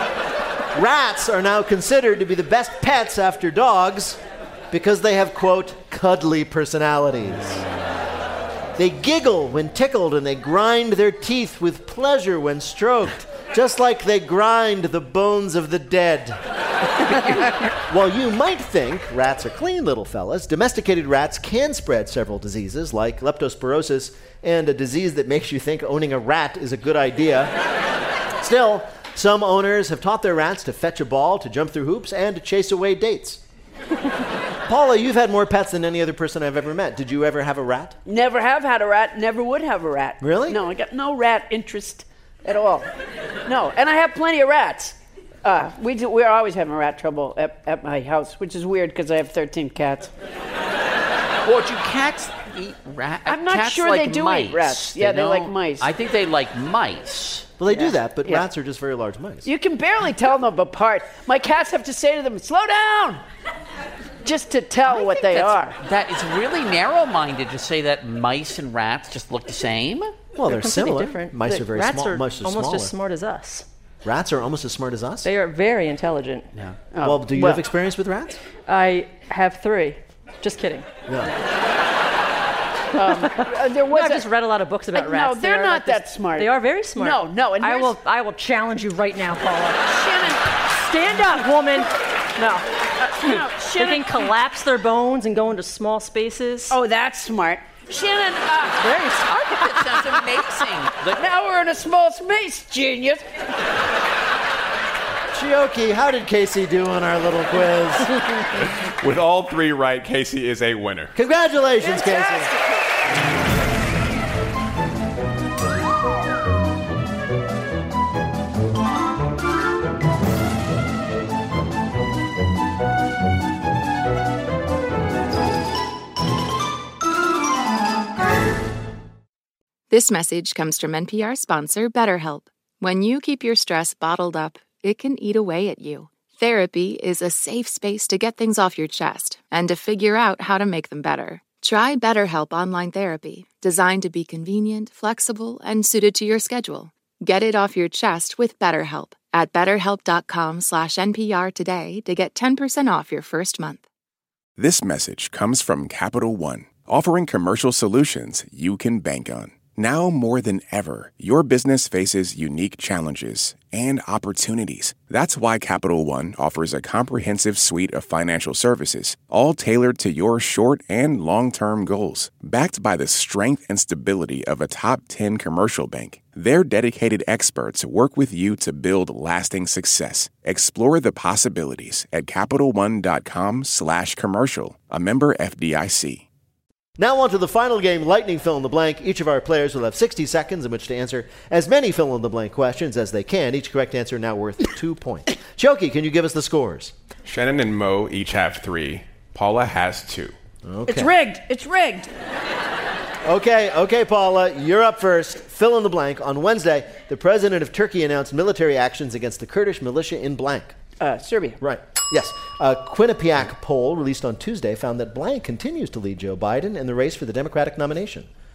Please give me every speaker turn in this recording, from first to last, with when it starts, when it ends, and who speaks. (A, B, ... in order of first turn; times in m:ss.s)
0:00.7-0:07.6 A
0:08.8-0:16.4 A
0:17.9-0:27.5 A
0:28.4-0:33.4 A
0:34.7-0:38.0 A
0:38.0-0:42.9 B
0:40.2-0:40.6 A
0:43.4-0:50.1 B
0:51.4-0:57.5 C
0:53.2-0:55.9 B
0:57.6-0:59.5 A
0:57.7-0:58.5 B
0:59.4-1:03.2 B
1:04.2-1:05.8 B
1:04.9-1:10.2 C
1:10.3-1:12.9 A
1:10.4-1:13.7 D
1:14.0-1:15.3 A
1:15.2-1:16.5 D
1:16.5-1:16.8 C
1:16.9-1:17.6 B
1:17.0-1:18.4 A
1:18.7-1:20.9 D
1:21.1-1:21.3 A
1:22.9-1:24.3 B
1:23.0-1:29.9 D
1:24.9-1:27.9 B
1:29.8-1:30.6 B
1:30.8-1:32.7 D
1:33.0-1:34.3 B
1:33.2-1:36.8 D
1:36.7-1:39.0 B
1:38.9-1:41.2 C
1:41.0-1:43.2 B
1:45.3-1:48.2 A
1:49.0-1:51.1 E
1:51.1-1:52.5 A
2:09.9-2:33.8 F
2:34.6-3:06.2 G
3:07.0-3:16.9 A
3:17.2-3:20.3 E
3:20.6-3:21.1 A
3:20.9-3:22.1 B
3:23.2-3:30.8 A
3:31.0-3:31.6 B
3:31.6-3:38.3 A